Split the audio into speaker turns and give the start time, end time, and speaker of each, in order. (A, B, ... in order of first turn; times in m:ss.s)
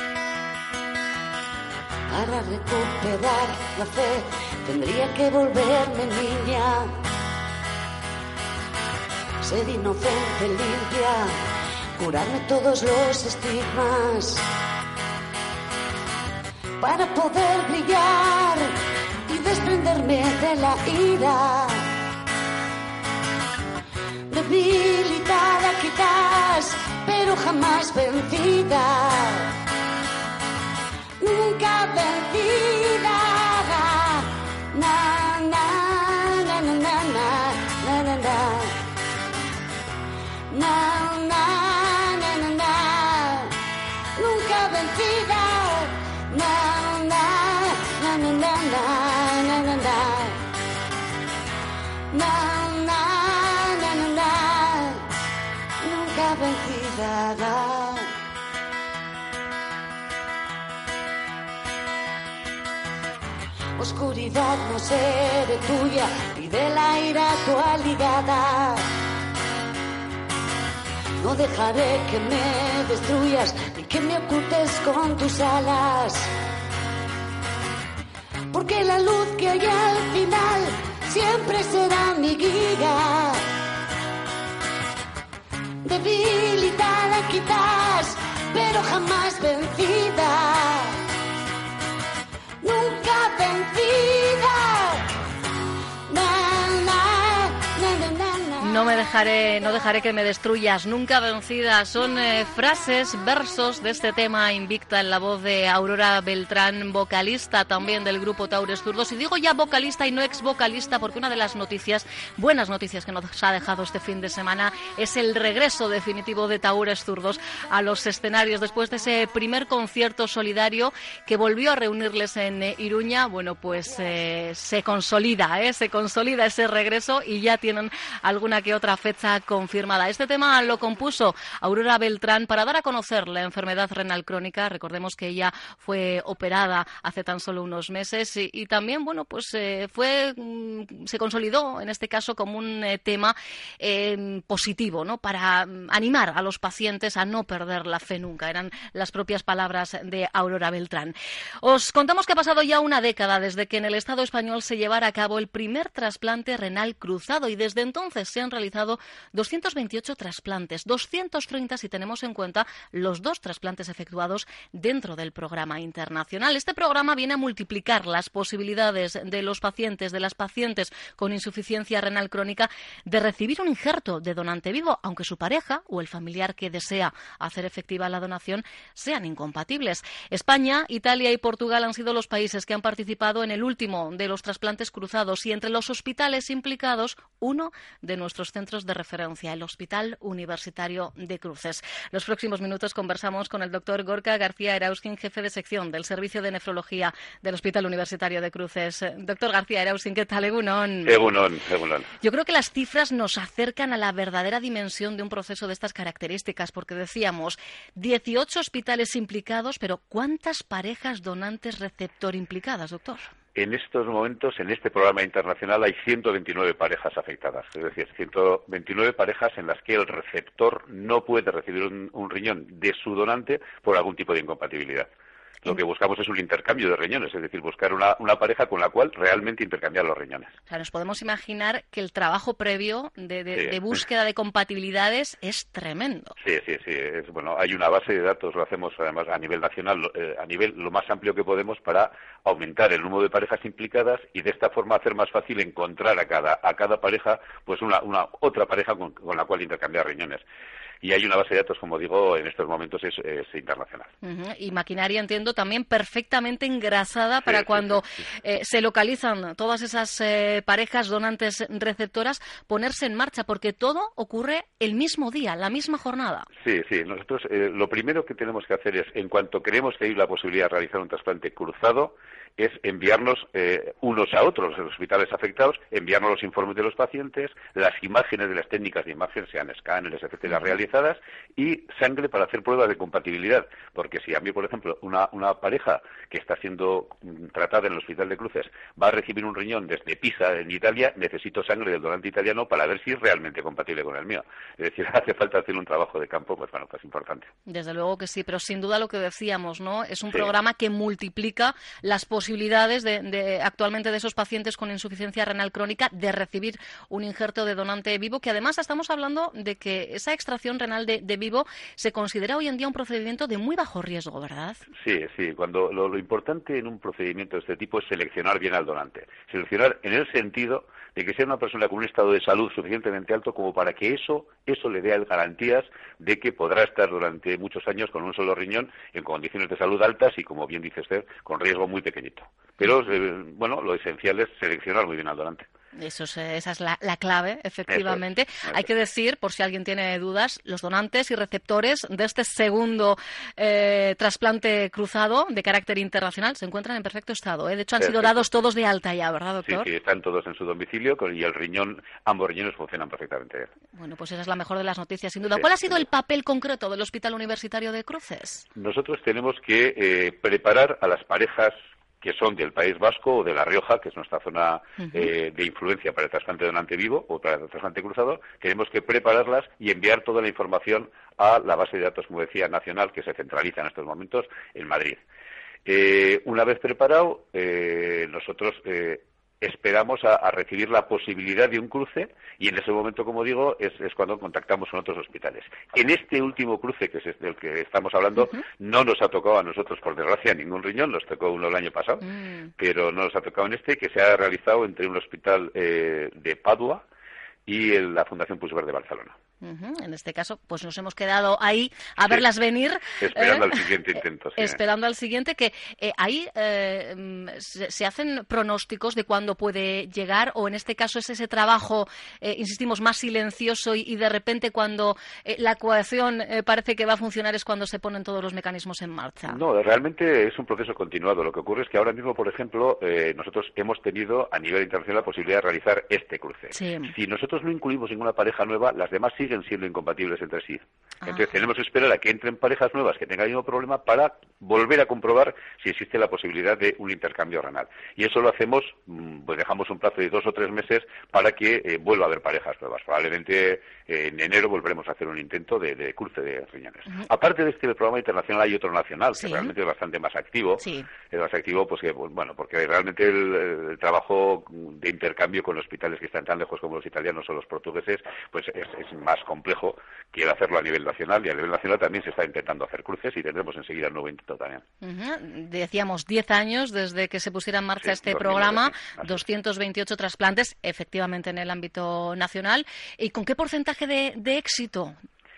0:02.1-0:06.9 A
0:09.4-0:11.3 A
0:12.0-0:14.4 A
0:16.8-0:18.8 A
0:19.3-0:21.8 A
0:24.3-0:29.5 A
0:31.2-0:38.8 A
0:40.5-0:43.6 A
0:44.2-0:50.4 A
0:52.1-0:55.0 A
0:55.8-0:58.1 A
1:03.8-1:08.8 A
1:11.2-1:16.3 A
1:18.5-1:23.4 A
1:25.8-1:31.0 A
1:32.6-1:35.1 A
1:36.1-1:39.1 A
1:38.6-3:21.2 B
3:21.0-3:22.1 C
3:22.2-3:33.3 B
3:33.6-3:45.1 C
3:45.6-3:50.5 C
3:50.7-3:56.4 B
3:53.5-3:53.8 C
3:56.4-4:10.4 C
4:11.0-4:14.1 C
4:14.2-4:26.5 B
4:17.4-4:18.0 C
4:26.6-4:57.5 C
4:57.7-5:14.8 B
5:15.0-5:35.7 C
5:36.0-5:49.9 B
5:37.9-5:38.9 C
5:48.0-5:48.4 C
5:49.6-5:53.7 C
5:53.9-5:58.7 B
5:55.5-5:56.0 C
5:58.8-6:15.2 C
6:15.9-6:37.0 C
6:32.4-6:32.7 B
6:37.7-6:39.4 C
6:39.6-6:43.9 B
6:43.2-6:44.8 C
6:44.6-6:59.6 B
6:59.5-7:44.8 C
7:06.7-7:07.1 B
7:29.4-7:29.7 B
7:30.8-7:31.1 B
7:45.0-7:55.2 B
7:48.0-7:49.4 C